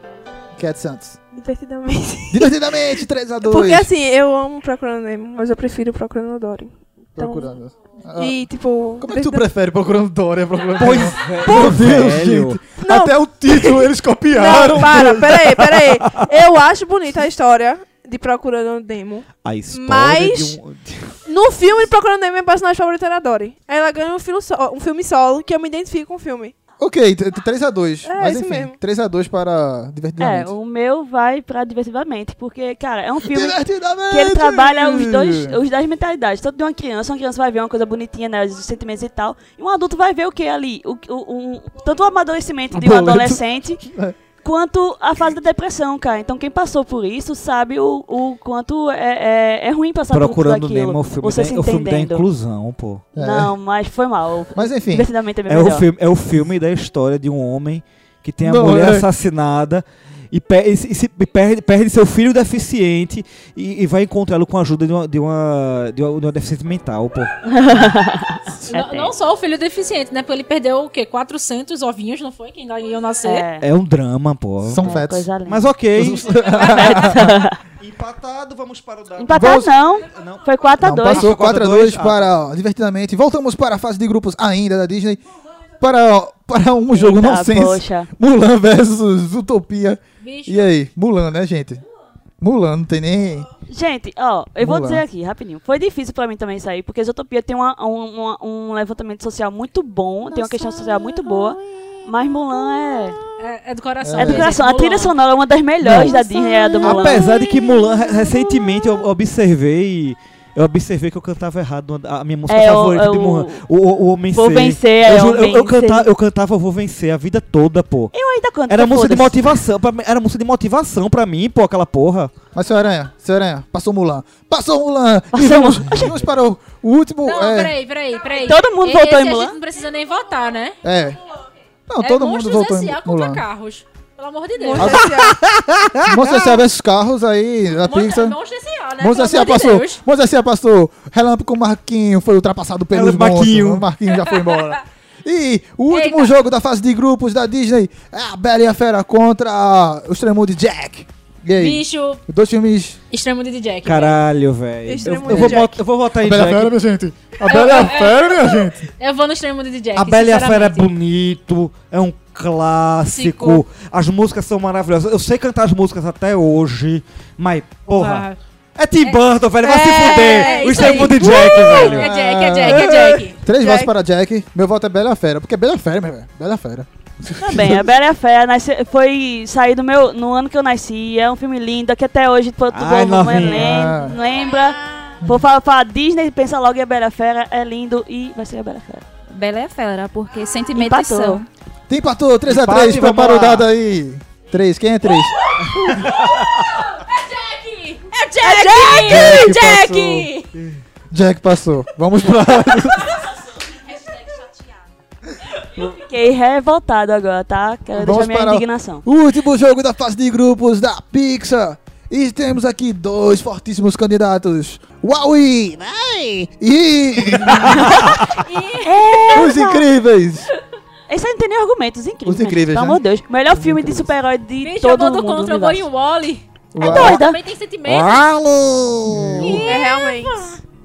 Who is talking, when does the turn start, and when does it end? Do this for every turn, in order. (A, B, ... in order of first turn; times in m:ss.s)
0:00.5-0:01.2 A
0:01.3-0:02.8 B
0:02.3-0:03.9 A
0:03.4-0:07.5 B
0:07.2-0:08.4 A
0:08.2-0:09.4 B
0:09.0-0:15.6 A
0:10.8-0:12.7 C
0:12.8-0:20.6 B
0:14.5-0:16.2 C
0:19.4-0:21.2 C
0:21.2-0:26.5 B
0:26.8-0:30.5 A
0:28.0-0:28.8 B
0:30.2-0:43.8 D
0:33.2-0:35.6 A
0:42.8-0:43.2 A
0:43.9-0:44.2 A
0:44.4-0:52.2 D
0:50.1-0:53.1 C
0:53.2-0:53.5 A
0:53.2-0:55.9 D
0:54.5-0:55.1 A
0:55.5-1:07.3 C
0:58.4-0:59.1 A
1:07.5-1:09.1 D
1:08.7-1:13.4 E
1:13.2-1:13.6 D
1:13.6-1:19.5 C
1:14.6-1:15.3 A
1:14.8-1:15.7 D
1:15.9-1:17.3 A
1:16.5-1:17.6 D
1:19.2-1:21.3 D
1:19.3-1:19.7 A
1:20.1-1:20.5 C
1:20.8-1:25.2 A
1:21.0-1:22.3 C
1:25.8-1:31.8 A
1:26.9-1:28.1 D
1:30.2-1:30.7 E
1:32.4-1:33.5 A
1:33.7-1:43.2 D
1:34.6-1:35.0 A
1:43.4-1:45.1 E
1:44.0-1:44.5 A
1:44.2-1:47.4 D
1:45.8-1:46.2 C
1:46.8-1:58.1 C
1:52.5-1:53.6 D
1:54.3-1:56.1 D
1:58.1-1:59.5 D
1:58.7-2:02.3 C
2:02.5-2:07.7 A
2:05.3-2:06.1 D
2:07.2-2:10.8 E
2:08.4-2:09.6 D
2:10.8-2:11.2 A
2:11.9-2:13.4 A
2:12.0-2:15.0 E
2:14.6-2:15.4 B
2:14.8-2:15.1 A
2:15.0-2:16.6 C
2:16.1-2:18.4 A
2:17.8-2:20.0 E
2:19.0-2:33.0 A
2:22.9-2:23.8 C
2:25.9-2:26.3 E
2:31.6-2:32.2 E
2:33.1-2:34.2 E
2:33.8-2:36.7 C
2:34.8-2:35.8 B
2:35.3-2:35.6 A
2:36.2-2:38.9 A
2:37.5-2:40.9 E
2:39.9-2:52.1 C
2:43.1-2:43.6 E
2:47.9-2:48.4 E
2:49.6-2:51.8 B
2:50.0-2:53.4 E
2:52.0-2:57.9 A
2:52.7-2:53.1 C
2:53.6-2:53.9 B
2:57.4-3:09.0 D
3:02.7-3:03.8 C
3:03.4-3:04.2 A
3:09.3-3:11.5 F
3:10.7-3:11.4 D
3:11.9-3:15.4 A
3:12.5-3:13.7 C
3:17.1-3:20.5 E
3:18.4-3:19.3 D
3:19.0-3:20.3 A
3:21.1-3:23.2 A
3:25.8-3:29.0 D
3:27.9-3:38.0 A
3:38.4-3:39.4 E
3:38.8-3:39.9 D
3:39.3-3:40.5 A
3:41.1-3:45.9 D
3:42.2-3:43.0 A
3:43.5-3:44.1 A
3:44.6-3:48.2 E
3:46.7-3:47.2 A
3:46.8-3:47.4 D
3:47.8-3:49.6 C
3:49.0-3:49.7 A
3:49.4-3:50.6 E
3:49.4-3:50.5 B